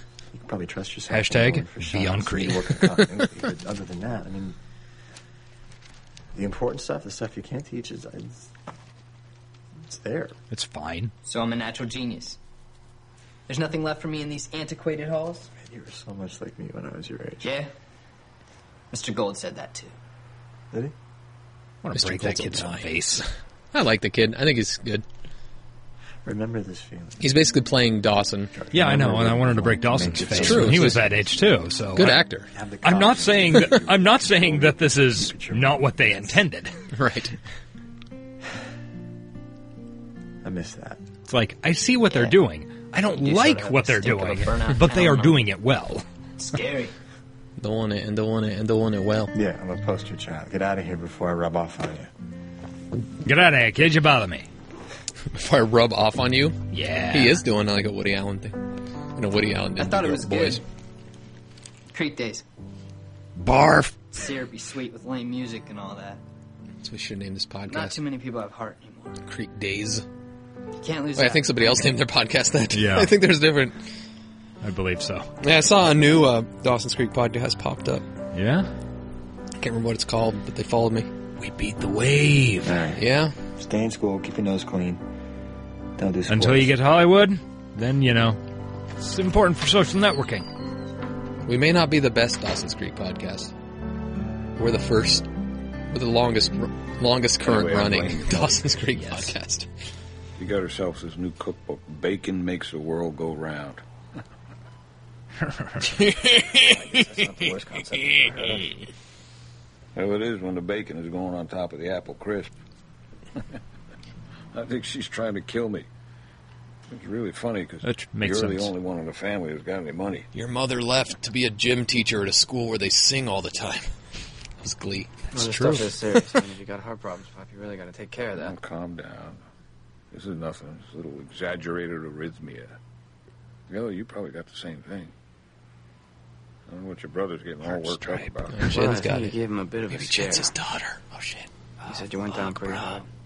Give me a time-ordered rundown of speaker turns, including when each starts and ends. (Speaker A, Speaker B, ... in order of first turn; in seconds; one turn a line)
Speaker A: 0.3-4.6
Speaker B: 1.1-2.7
Speaker A: 6.3-8.5
Speaker A: 9.8-10.4
Speaker B: 10.5-11.1
Speaker C: 11.2-12.4
Speaker C: 13.5-15.5
Speaker A: 15.6-17.5
Speaker C: 17.4-17.7
Speaker C: 18.9-19.9
Speaker B: 21.8-23.2
Speaker D: 21.9-25.1
Speaker A: 26.2-27.4
Speaker D: 27.2-28.5
Speaker A: 28.5-31.3
Speaker B: 28.7-32.2
Speaker D: 30.3-31.1
Speaker D: 32.0-32.5
Speaker A: 32.5-36.5
Speaker B: 32.8-36.7
Speaker D: 36.9-37.4
Speaker A: 40.4-41.0
Speaker B: 41.3-46.0
Speaker C: 43.2-45.4
Speaker C: 46.4-46.9
Speaker D: 47.6-49.3
Speaker A: 49.3-52.1
Speaker B: 53.2-54.5
Speaker D: 55.3-58.6
Speaker B: 56.7-57.4
Speaker D: 59.2-60.6
Speaker C: 59.8-60.6
Speaker C: 61.9-62.4
Speaker B: 63.4-64.0
Speaker C: 64.1-66.2
Speaker D: 66.8-68.0
Speaker C: 67.7-69.2
Speaker D: 69.3-70.0
Speaker C: 70.8-71.8
Speaker D: 71.2-73.8
Speaker B: 72.7-73.1
Speaker B: 74.6-75.3
Speaker D: 75.4-78.0
Speaker B: 78.3-78.7
Speaker D: 79.6-81.1
Speaker B: 81.4-82.8
Speaker A: 82.6-83.0
Speaker D: 83.0-83.3
Speaker A: 83.6-85.0
Speaker A: 86.0-86.8
Speaker B: 86.3-88.4
Speaker B: 89.0-90.5
Speaker D: 91.5-93.5
Speaker D: 94.6-95.3
Speaker D: 95.9-99.7
Speaker E: 97.4-98.8
Speaker B: 99.0-99.3
Speaker E: 100.4-103.8
Speaker B: 105.4-106.0
Speaker D: 105.9-106.9
Speaker F: 106.5-108.7
Speaker E: 110.0-112.5
Speaker E: 114.5-115.9
Speaker E: 116.9-120.3
Speaker B: 117.8-118.7
Speaker D: 120.3-123.9
Speaker D: 124.6-125.2
Speaker F: 125.3-128.6
Speaker B: 125.3-125.9
Speaker E: 128.3-129.4
Speaker E: 130.1-132.8
Speaker E: 133.7-135.1
Speaker E: 136.7-138.7
Speaker B: 137.6-138.4
Speaker D: 138.5-139.4
Speaker F: 138.7-140.5
Speaker D: 139.9-141.5
Speaker B: 141.8-143.0
Speaker F: 141.8-143.1